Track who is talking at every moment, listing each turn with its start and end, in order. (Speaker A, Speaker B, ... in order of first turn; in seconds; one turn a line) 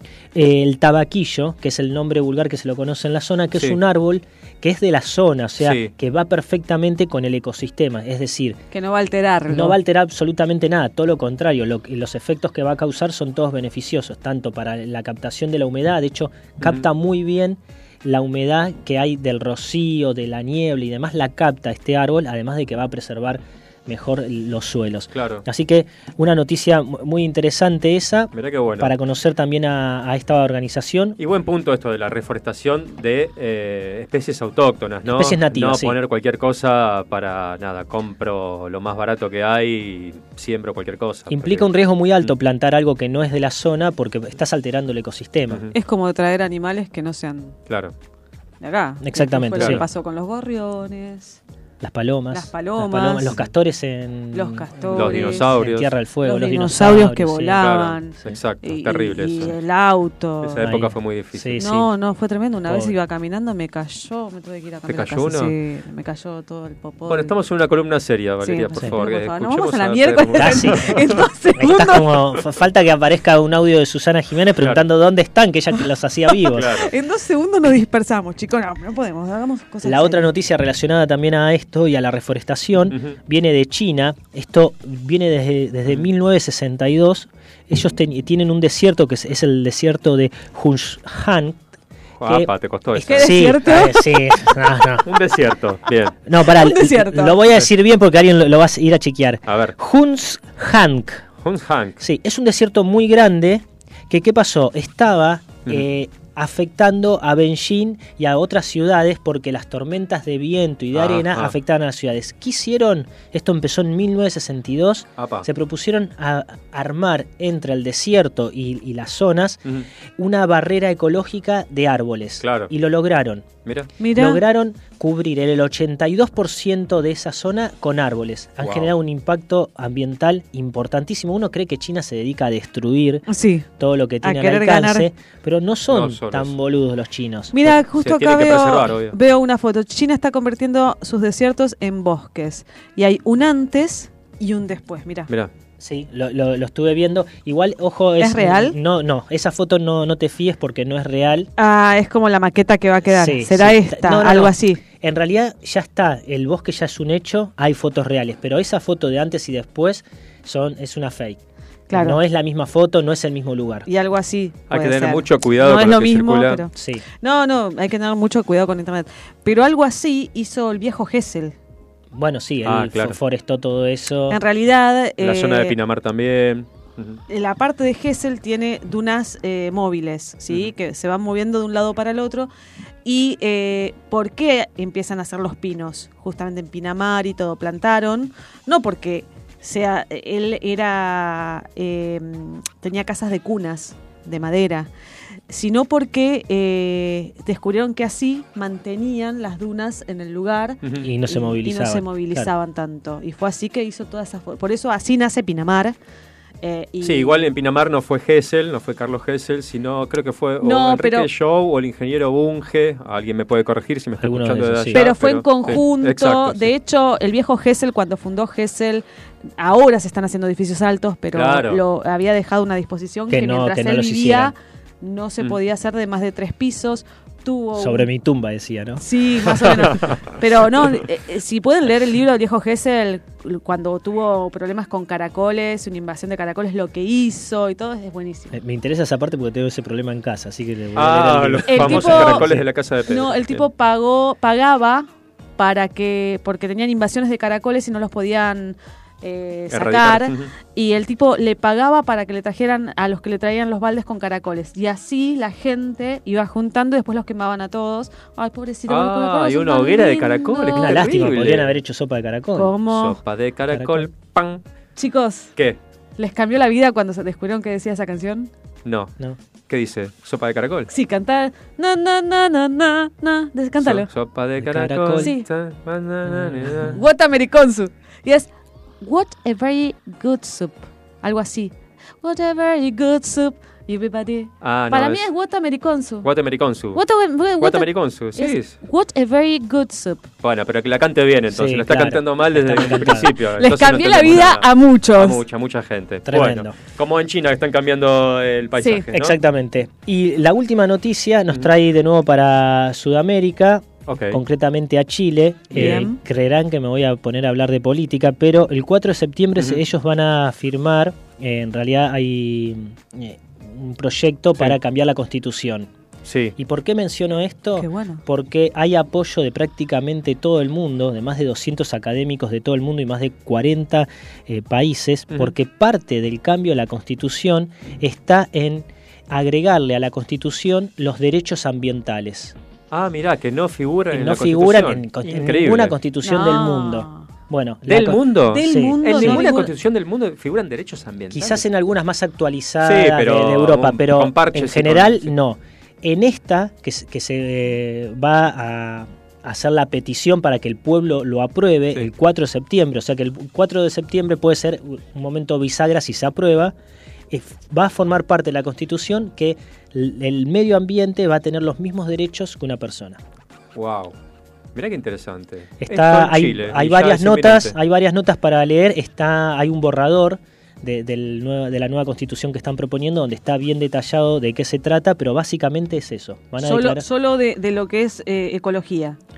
Speaker A: 0.3-8.6
Speaker B: 5.6-5.9
Speaker C: 8.7-9.8
Speaker A: 9.5-31.2
Speaker B: 16.6-16.9
Speaker B: 25.1-25.4
Speaker B: 28.3-28.9
Speaker B: 31.2-42.3
Speaker A: 35.1-36.0
Speaker A: 41.3-45.7
Speaker C: 45.7-47.6
Speaker B: 47.7-47.9
Speaker C: 48.6-51.4
Speaker A: 49.0-49.9
Speaker B: 49.5-49.8
Speaker A: 51.8-57.7
Speaker C: 52.3-53.4
Speaker C: 54.3-55.6
Speaker B: 54.9-55.9
Speaker C: 56.2-60.7
Speaker B: 57.6-59.6
Speaker B: 60.4-61.6
Speaker A: 60.6-61.9
Speaker C: 61.6-67.3
Speaker A: 62.6-63.0
Speaker B: 64.9-65.5
Speaker B: 67.1-71.2
Speaker C: 68.4-72.4
Speaker A: 70.4-71.0
Speaker A: 71.6-76.8
Speaker B: 76.5-76.9
Speaker C: 76.5-80.3
Speaker A: 79.8-91.6
Speaker B: 82.9-83.2
Speaker B: 92.2-93.4
Speaker A: 92.3-95.1
Speaker C: 93.0-94.4
Speaker B: 95.0-96.2
Speaker A: 96.3-101.2
Speaker C: 96.4-97.4
Speaker B: 99.5-99.8
Speaker B: 101.4-102.0
Speaker A: 102.0-119.6
Speaker B: 110.9-111.5
Speaker B: 115.2-115.5
Speaker A: 120.2-123.5
Speaker B: 122.4-122.7
Speaker B: 123.7-123.9
Speaker C: 124.0-124.4
Speaker A: 124.2-133.2
Speaker B: 128.6-128.9
Speaker C: 133.3-133.7
Speaker A: 133.8-137.7
Speaker C: 134.2-135.1
Speaker B: 135.9-136.5
Speaker C: 137.5-145.3
Speaker B: 137.9-139.2
Speaker A: 145.8-151.5
Speaker C: 148.2-148.8
Speaker C: 151.6-154.8
Speaker A: 153.1-161.4
Speaker C: 161.9-162.2
Speaker A: 161.9-163.9
Speaker C: 163.9-171.6
Speaker B: 164.7-166.6
Speaker A: 166.8-167.0
Speaker A: 172.1-174.4
Speaker B: 172.6-173.2
Speaker C: 174.3-175.8
Speaker B: 175.2-177.2
Speaker C: 177.3-182.5
Speaker C: 183.0-194.9
Speaker C: 195.5-206.0
Speaker A: 201.0-202.5
Speaker C: 206.6-207.4
Speaker B: 207.0-216.7
Speaker C: 210.6-211.3
Speaker A: 214.2-215.1
Speaker C: 214.9-219.1
Speaker C: 219.6-228.1
Speaker B: 221.3-221.8
Speaker A: 223.3-224.5
Speaker A: 227.8-229.0
Speaker C: 229.0-238.6
Speaker A: 238.5-242.7
Speaker B: 240.9-243.7
Speaker C: 241.7-242.5
Speaker C: 243.1-261.2
Speaker B: 249.7-250.5
Speaker B: 258.9-261.8
Speaker A: 260.8-262.8
Speaker C: 262.5-263.2
Speaker B: 262.9-264.6
Speaker A: 263.7-264.1
Speaker C: 265.0-265.5
Speaker C: 266.2-268.5
Speaker B: 268.9-269.1
Speaker B: 269.7-270.9
Speaker C: 270.9-274.1
Speaker B: 273.8-277.0
Speaker A: 274.6-275.3
Speaker C: 275.2-275.4
Speaker A: 276.3-277.0
Speaker C: 276.9-278.5
Speaker C: 279.0-286.3
Speaker B: 284.6-285.3
Speaker B: 286.2-287.0
Speaker C: 286.9-290.3
Speaker B: 287.6-288.8
Speaker B: 290.4-299.4
Speaker A: 291.5-293.4
Speaker C: 293.6-295.4
Speaker A: 296.3-296.8
Speaker C: 298.8-299.1
Speaker A: 299.1-315.9
Speaker B: 304.1-304.4
Speaker C: 305.7-306.2
Speaker B: 305.7-306.1
Speaker B: 309.6-309.8
Speaker B: 316.2-316.6
Speaker A: 316.6-332.6
Speaker C: 317.8-318.2
Speaker B: 332.9-336.0
Speaker A: 334.1-339.5
Speaker C: 336.2-337.3
Speaker B: 337.9-341.6
Speaker C: 338.5-339.7
Speaker A: 341.3-356.8
Speaker B: 342.8-345.3
Speaker A: 357.3-363.2
Speaker B: 363.7-364.1
Speaker B: 364.8-367.8
Speaker A: 365.8-377.1
Speaker C: 376.6-379.2